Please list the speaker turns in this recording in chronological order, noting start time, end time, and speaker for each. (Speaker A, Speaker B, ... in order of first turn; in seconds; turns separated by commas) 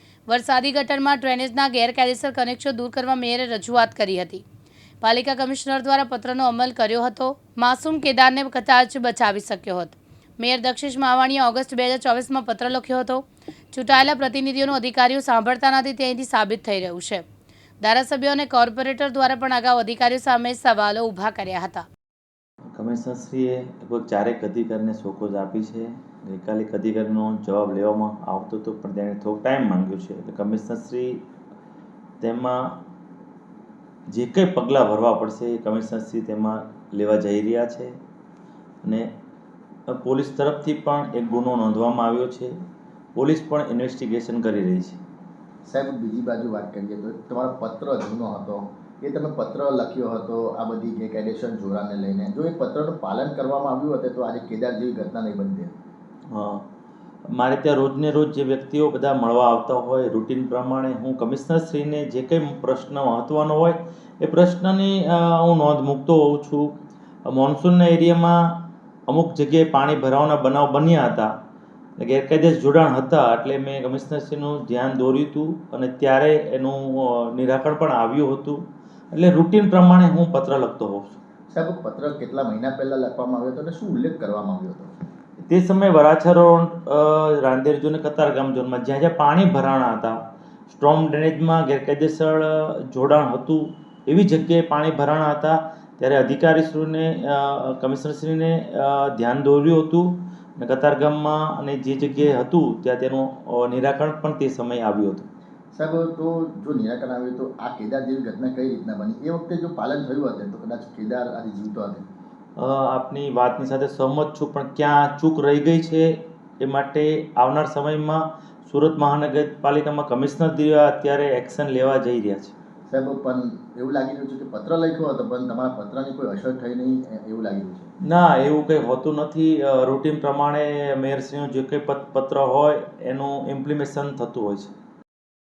Speaker A: 0.3-4.4, Speaker A: 5.0-17.2, Speaker A: 17.8-21.9, Speaker B: 22.7-31.2, Speaker B: 32.2-32.8, Speaker B: 34.1-38.0, Speaker B: 38.8-39.1, Speaker B: 39.9-42.5, Speaker B: 43.1-45.0, Speaker C: 45.6-55.7, Speaker B: 56.3-56.6, Speaker B: 57.3-71.3, Speaker B: 72.0-81.2, Speaker C: 81.5-84.9, Speaker B: 85.4-90.2, Speaker B: 90.7-105.3, Speaker C: 105.8-112.0, Speaker B: 112.6-122.5, Speaker C: 122.9-127.9, Speaker B: 128.0-134.7